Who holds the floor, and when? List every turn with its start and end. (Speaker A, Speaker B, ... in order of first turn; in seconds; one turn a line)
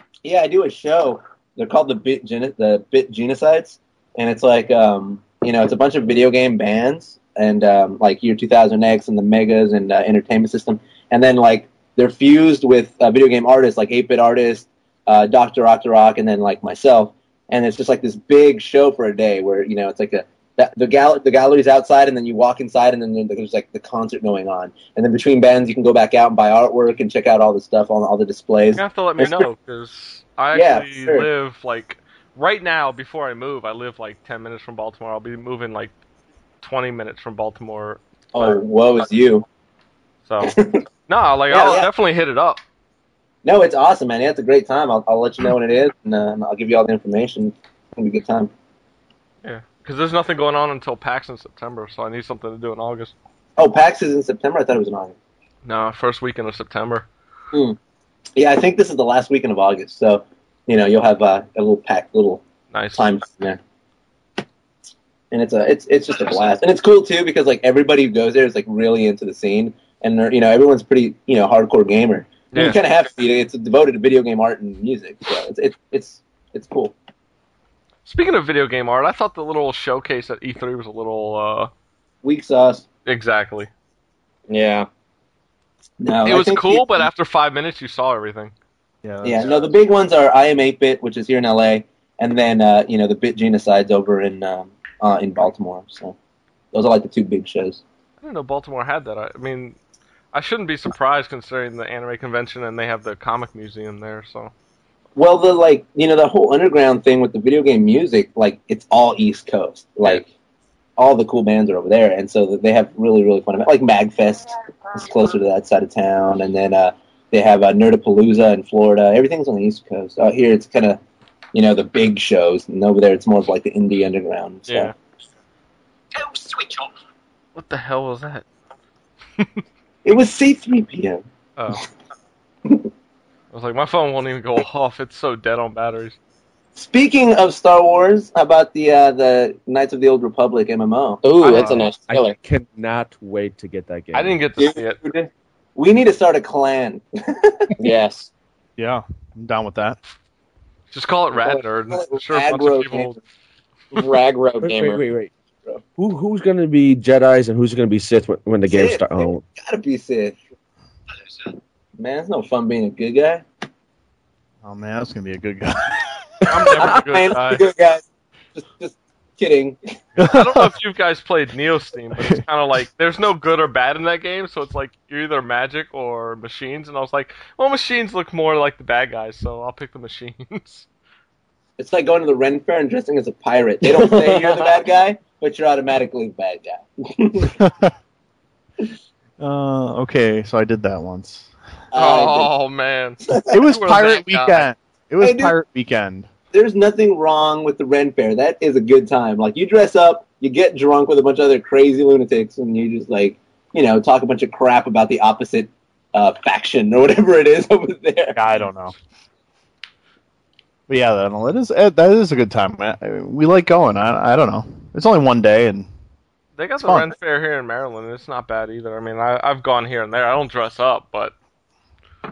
Speaker A: 0.2-29.5
Speaker B: 28.7-35.9
Speaker A: 30.5-31.3
Speaker B: 36.6-38.0
Speaker A: 38.3-39.5
Speaker B: 40.2-40.5
Speaker A: 40.4-40.8
Speaker B: 41.1-42.6
Speaker A: 41.5-41.9
Speaker A: 43.4-48.5
Speaker B: 49.4-53.1
Speaker A: 53.6-55.1
Speaker B: 55.6-57.0
Speaker A: 58.4-62.4
Speaker B: 62.7-63.1
Speaker A: 62.9-63.6
Speaker A: 65.3-77.0
Speaker B: 72.5-72.8
Speaker B: 78.0-81.7
Speaker A: 82.2-82.8
Speaker B: 83.0-83.7
Speaker C: 84.5-84.9
Speaker A: 86.0-87.1
Speaker B: 86.2-88.5
Speaker D: 89.0-89.5
Speaker A: 89.2-96.2
Speaker A: 96.7-97.8
Speaker B: 98.2-99.8
Speaker B: 100.3-104.5
Speaker A: 105.2-110.3
Speaker A: 111.0-121.0
Speaker A: 121.5-124.9
Speaker B: 124.7-124.9
Speaker A: 126.2-126.8
Speaker B: 127.5-128.4
Speaker A: 130.0-131.2
Speaker B: 131.6-131.8
Speaker B: 133.5-136.2
Speaker A: 136.8-141.2
Speaker C: 141.2-142.4
Speaker B: 141.4-141.9
Speaker E: 142.1-144.4
Speaker B: 144.1-145.0
Speaker A: 144.6-147.7
Speaker C: 147.8-148.3
Speaker D: 148.8-150.0
Speaker B: 150.9-153.2
Speaker A: 151.3-153.1
Speaker C: 153.9-155.0
Speaker E: 154.6-155.3
Speaker E: 156.0-159.4
Speaker A: 158.7-160.4
Speaker A: 162.0-163.4
Speaker D: 164.6-166.2
Speaker B: 166.5-167.6
Speaker A: 166.7-168.0
Speaker A: 168.5-169.8
Speaker D: 170.2-170.7
Speaker B: 170.2-180.8
Speaker D: 172.1-172.4
Speaker A: 181.8-187.6
Speaker C: 183.8-184.8
Speaker D: 187.6-187.9
Speaker D: 189.4-191.5
Speaker A: 191.9-192.5
Speaker B: 191.9-194.7
Speaker A: 193.2-193.6
Speaker D: 193.5-196.3
Speaker A: 195.2-195.5
Speaker A: 196.5-208.4
Speaker D: 208.3-208.9
Speaker D: 210.9-215.9
Speaker B: 216.6-221.3
Speaker D: 216.8-217.1